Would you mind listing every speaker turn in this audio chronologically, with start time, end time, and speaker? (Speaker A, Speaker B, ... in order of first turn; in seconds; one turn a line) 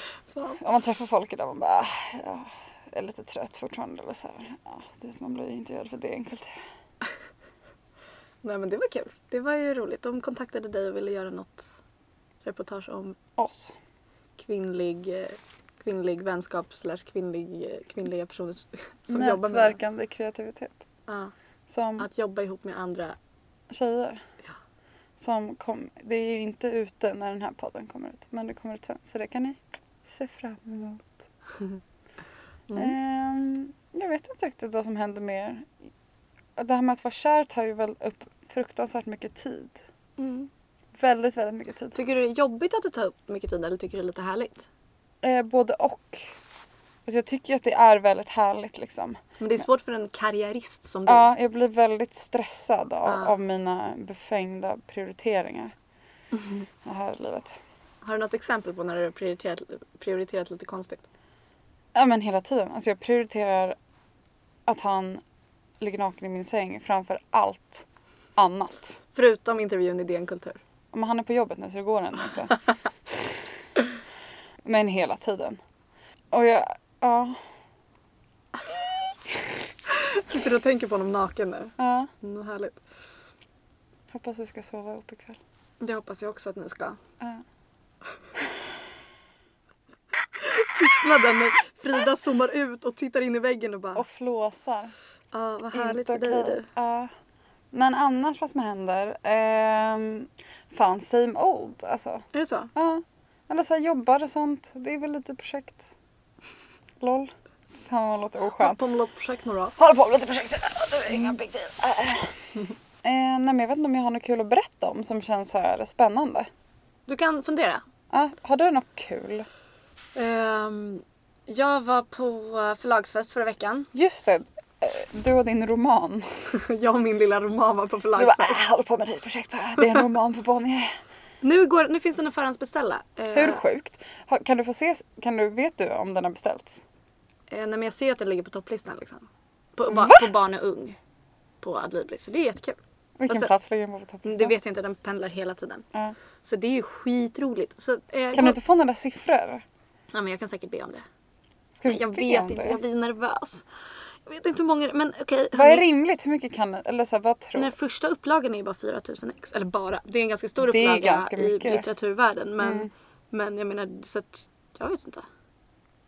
Speaker A: 0.5-6.6
Speaker B: 8.4-11.7
Speaker B: 12.4-13.2
Speaker A: 13.4-13.8
Speaker B: 14.4-19.8
Speaker A: 19.1-20.9
Speaker B: 21.1-21.3
Speaker A: 21.7-22.1
Speaker B: 22.0-23.2
Speaker A: 23.7-24.3
Speaker A: 25.2-31.2
Speaker B: 32.7-33.0
Speaker A: 32.8-35.9
Speaker A: 36.6-39.8
Speaker B: 40.2-40.5
Speaker A: 40.9-42.0
Speaker B: 41.9-44.7
Speaker A: 45.2-46.4
Speaker A: 47.1-49.2
Speaker B: 49.4-51.3
Speaker A: 51.1-55.7
Speaker B: 53.0-53.4
Speaker B: 56.3-56.7
Speaker A: 56.8-57.6
Speaker B: 58.0-61.1
Speaker A: 62.0-63.8
Speaker A: 64.7-65.2
Speaker A: 65.8-69.0
Speaker B: 69.2-70.6
Speaker A: 70.9-72.6
Speaker A: 74.7-75.6
Speaker A: 76.3-77.4
Speaker B: 79.9-82.8
Speaker A: 81.8-82.1
Speaker A: 84.1-85.4
Speaker B: 85.8-87.0
Speaker B: 90.3-94.0
Speaker A: 94.0-95.0
Speaker B: 95.3-96.7
Speaker A: 95.7-97.1
Speaker A: 97.7-105.9
Speaker B: 102.3-102.7
Speaker A: 107.0-108.8
Speaker B: 108.5-109.8
Speaker A: 109.8-112.4
Speaker A: 113.0-116.5
Speaker B: 117.1-117.8
Speaker A: 118.1-119.5
Speaker B: 120.2-123.9
Speaker A: 123.9-126.5
Speaker B: 126.5-128.6
Speaker A: 128.2-131.0
Speaker B: 131.4-133.6
Speaker A: 133.3-136.8
Speaker B: 137.5-141.0
Speaker A: 139.9-140.3
Speaker B: 141.6-143.5
Speaker A: 143.2-144.6
Speaker B: 144.2-145.9
Speaker B: 146.4-148.6
Speaker A: 148.3-149.6
Speaker B: 150.1-151.1
Speaker A: 151.7-152.8
Speaker B: 151.9-155.9
Speaker A: 155.5-157.7
Speaker B: 157.6-165.3
Speaker A: 160.6-161.9
Speaker A: 162.6-162.9